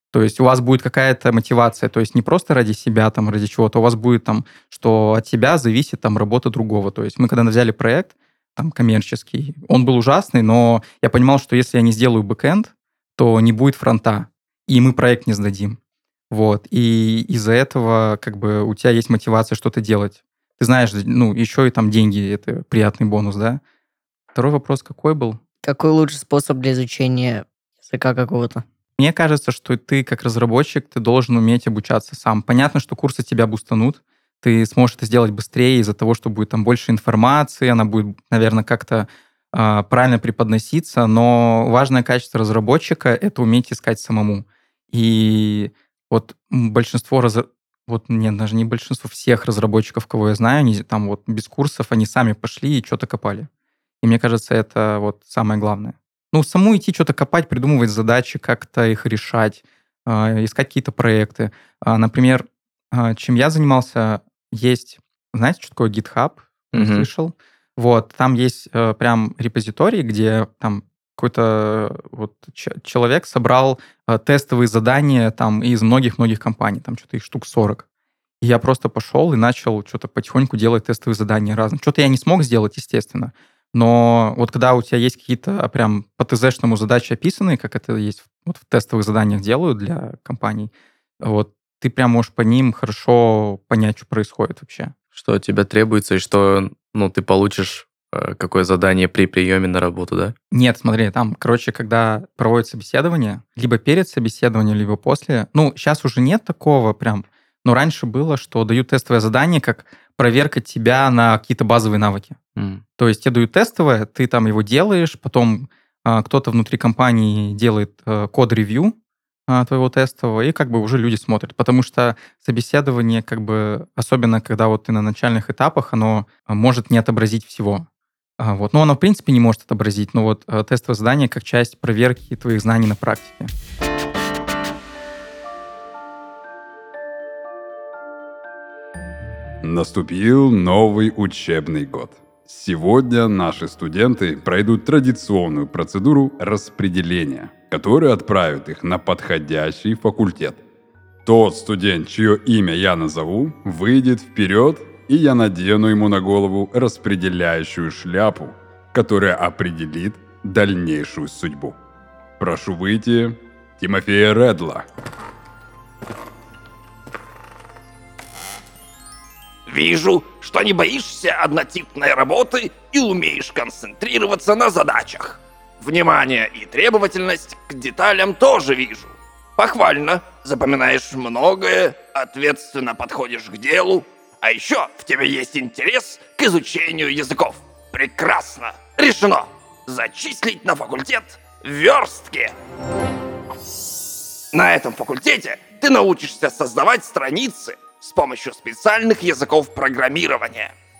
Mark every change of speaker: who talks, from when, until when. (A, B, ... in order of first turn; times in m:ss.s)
0:00.1-0:15.8 A
0:16.3-0:23.6 A
0:24.3-0:25.4 A
0:25.6-0:28.6 B
0:29.0-0:53.5 A
0:54.0-1:17.8 A
1:06.7-1:07.1 C
1:18.4-1:34.9 A
1:35.1-1:40.3 C
1:40.5-1:52.4 A
1:52.6-1:52.8 C
1:53.0-1:58.9 A
1:59.5-2:07.9 A
2:08.4-2:13.5 A
2:19.6-2:30.6 D
2:31.2-2:41.8 D
2:42.4-2:44.8 D
2:49.7-3:12.5 E
3:14.5-3:20.7 E